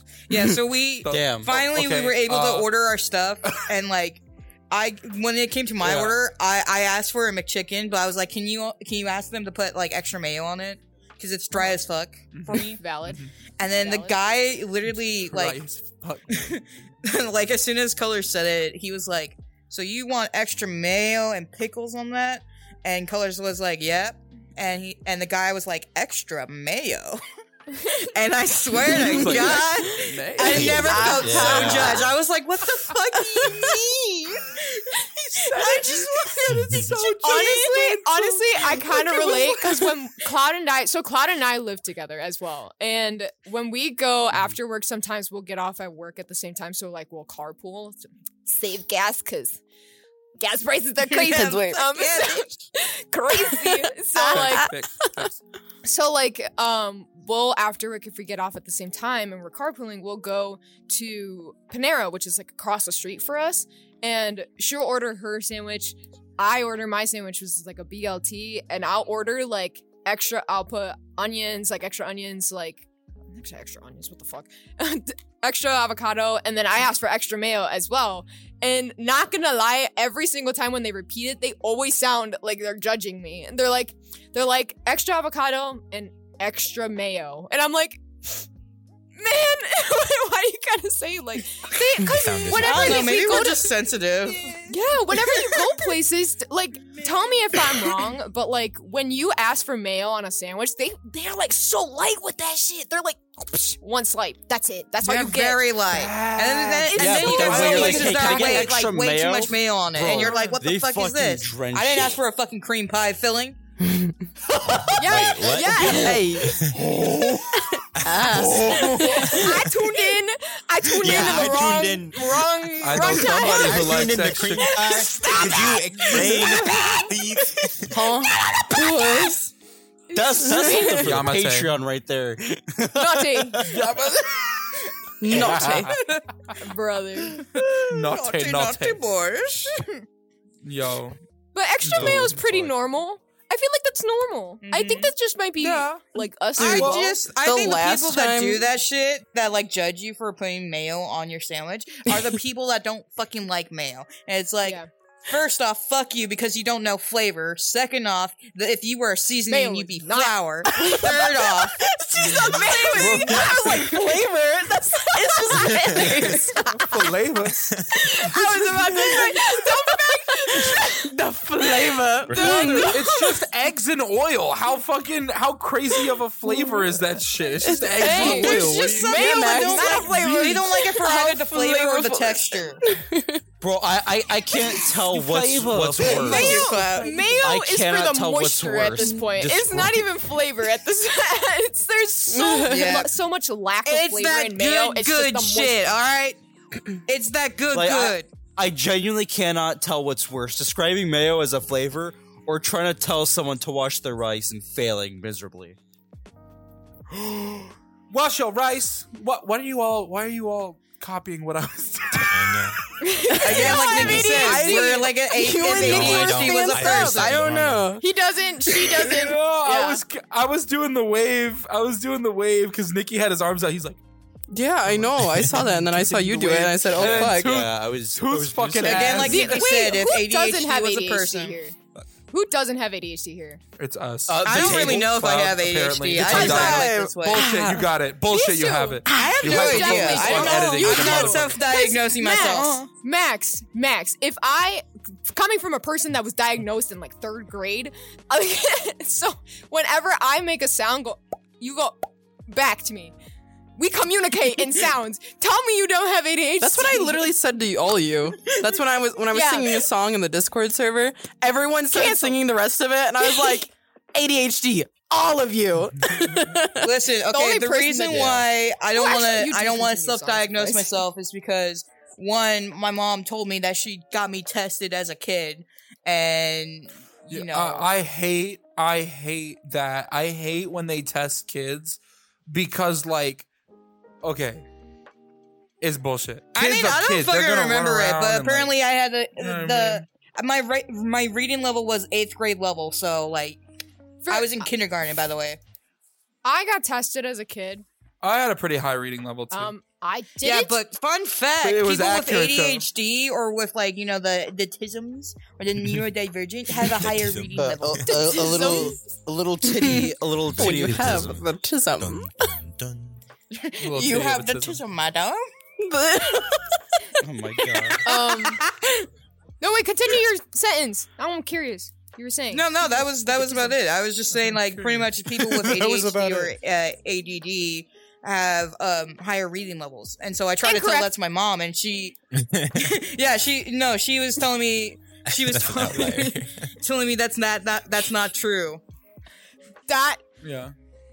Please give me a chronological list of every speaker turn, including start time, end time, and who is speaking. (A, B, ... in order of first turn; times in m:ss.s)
0:00.3-0:12.8 A
0:00.3-0:02.7 B
0:01.1-0:01.5 C
0:05.8-0:06.2 B
0:12.3-0:13.3 B
0:12.7-0:14.2 D
0:13.6-0:15.6 A
0:15.3-0:16.5 B
0:16.3-0:27.2 A
0:27.8-0:28.1 D
0:28.0-0:34.8 A
0:28.9-0:31.4 B
0:30.5-0:31.8 D
0:30.5-0:32.0 E
0:31.1-0:32.1 C
0:35.3-0:49.6 D
0:35.4-0:38.8 B
0:35.6-0:36.0 A
0:36.5-0:36.9 F
0:39.3-0:39.8 E
0:50.4-0:54.8 D
0:51.1-0:52.5 A
0:54.3-0:55.4 B
0:55.8-1:28.5 D
1:29.2-1:33.7 D
1:32.1-1:33.1 F
1:32.5-1:34.7 A
1:34.6-1:45.7 D
1:45.0-1:53.6 A
1:45.9-1:48.8 B
1:46.9-1:48.5 D
1:47.0-1:52.2 C
1:50.1-1:50.6 D
1:54.6-1:56.8 F
1:55.0-1:56.3 D
1:56.0-1:56.5 C
1:56.0-1:56.5 E
1:56.6-1:59.6 B
1:58.0-1:59.1 E
1:58.8-2:04.0 D
2:01.0-2:02.3 C
2:02.8-2:06.7 B
2:03.4-2:07.1 C
2:04.6-2:07.0 D
2:05.4-2:08.0 F
2:07.9-2:09.5 E
2:10.1-2:11.1 D
2:10.1-2:13.7 C
2:10.5-2:10.8 E
2:11.0-2:11.8 B
2:13.0-2:13.8 D
2:13.6-2:16.5 B
2:15.2-2:16.0 E
2:15.9-2:16.2 A
2:16.6-2:17.5 D
2:17.4-2:19.8 A
2:17.8-2:19.0 B
2:20.6-2:21.2 B
2:21.5-2:27.3 D
2:21.8-2:22.5 B
2:24.6-2:25.1 A
2:25.6-2:26.1 B
2:26.6-2:41.8 A
2:26.6-2:27.0 B
2:27.4-2:28.6 E
2:34.6-2:34.9 D
2:39.5-2:41.0 D
2:40.7-2:47.0 E
2:42.2-2:44.2 D
2:42.2-2:44.1 B
2:44.9-2:46.8 D
2:45.8-2:48.3 B
2:47.9-2:51.1 D
2:48.2-2:53.2 E
2:52.3-2:59.4 B
2:52.4-2:53.0 D
2:56.5-2:57.0 E
2:57.6-3:03.4 E
2:58.0-3:00.5 D
2:58.3-3:02.8 A
3:03.6-3:06.6 C
3:05.3-3:07.0 B
3:06.0-3:07.3 A
3:06.1-3:15.9 D
3:07.4-3:10.0 C
3:12.3-3:12.9 E
3:12.7-3:13.1 A
3:13.8-3:16.4 A
3:17.1-3:18.3 A
3:17.7-3:25.8 C
3:27.1-3:32.7 B
3:32.3-3:32.8 F
3:33.0-3:35.5 D
3:33.4-3:38.0 E
3:33.4-3:37.4 A
3:33.5-3:34.3 F
3:35.7-3:38.0 F
3:35.9-3:36.3 C
3:38.0-3:40.0 D
3:39.0-3:44.0 B
3:44.5-3:47.7 E
3:44.9-3:49.6 B
3:47.0-3:49.6 C
3:48.8-3:51.6 A
3:49.2-3:51.8 D
3:52.3-3:53.6 D
3:53.8-4:01.6 B
3:54.3-3:55.2 C
3:54.4-3:57.5 A
3:56.2-3:57.9 E
3:56.2-3:56.8 D
3:58.3-4:13.1 D
3:59.1-3:59.6 E
3:59.4-4:02.9 A
4:13.8-4:17.3 D
4:16.6-4:26.9 E
4:19.3-4:19.8 D
4:21.9-4:22.4 D
4:23.2-4:23.6 D
4:26.8-4:37.9 A
4:27.3-4:28.3 D
4:28.1-4:28.4 F
4:28.9-4:31.0 D
4:37.3-4:43.5 B
4:44.2-4:44.6 B
4:45.8-4:48.8 B
4:46.6-4:53.6 A
4:49.4-4:50.0 B
4:54.2-4:54.7 D
4:54.3-4:55.6 A
4:56.4-4:57.8 D
4:58.2-4:59.7 B
4:59.5-5:00.8 D
5:00.4-5:08.5 A
5:01.6-5:02.9 B
5:06.7-5:08.4 F
5:07.6-5:11.4 C
5:08.1-5:09.0 D
5:09.6-5:12.6 E
5:10.5-5:13.2 F
5:13.5-5:15.5 A
5:13.8-5:14.8 B
5:15.8-5:17.0 E
5:17.2-5:18.0 C
5:18.0-5:19.0 D
5:18.1-5:18.6 A
5:19.6-5:23.8 D
5:22.5-5:32.2 A
5:24.3-5:25.2 B
5:25.9-5:26.5 C
5:30.6-5:31.1 D
5:32.4-5:32.9 F
5:32.7-5:38.8 A
5:35.3-5:36.7 F
5:39.9-5:40.2 D
5:40.4-5:40.7 B